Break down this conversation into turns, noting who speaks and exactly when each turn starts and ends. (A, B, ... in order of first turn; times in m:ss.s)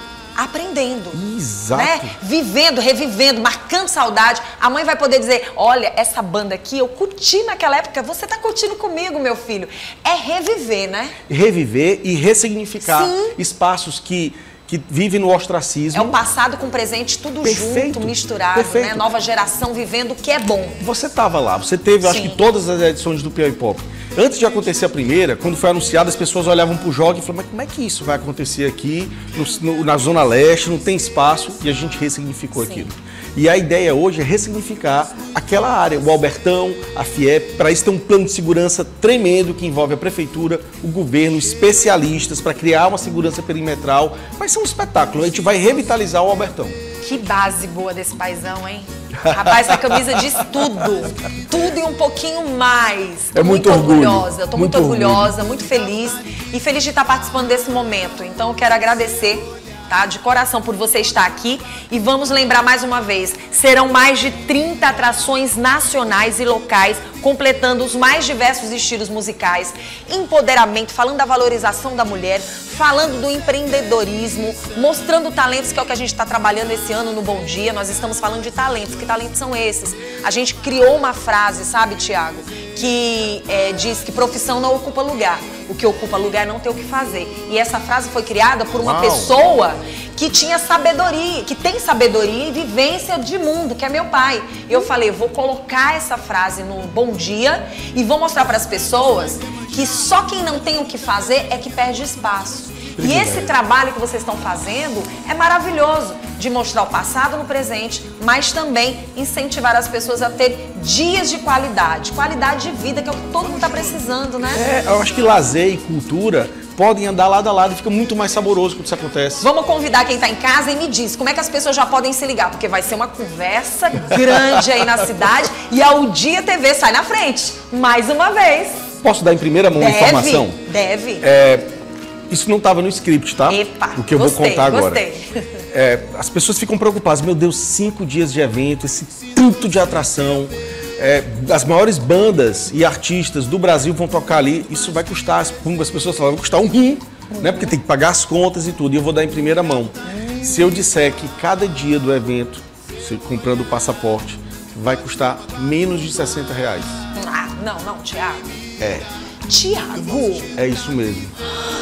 0:00.4-0:01.2 A
0:01.1-0:02.1 B
0:01.7-0:11.2 A
0:11.3-0:16.2 B
0:12.8-0:13.4 A
0:15.9-0:20.8 A
0:17.4-0:19.1 B
0:20.8-0:46.8 B
0:22.0-0:22.4 A
0:32.5-0:32.9 A
0:47.0-1:54.7 A
0:49.2-0:50.6 B
0:53.3-0:55.3 B
1:28.8-1:29.4 B
1:43.0-1:43.5 B
1:54.5-1:59.4 B
1:59.4-2:08.9 A
2:04.1-2:04.9 B
2:09.0-2:10.6 B
2:09.8-2:11.3 A
2:11.2-2:11.6 B
2:12.3-2:15.0 B
2:13.5-2:15.6 A
2:15.7-2:37.0 B
2:27.3-2:27.7 A
2:30.0-2:30.7 A
2:37.1-2:38.6 A
2:38.8-2:39.1 B
2:39.5-2:40.5 A
2:40.5-2:41.3 B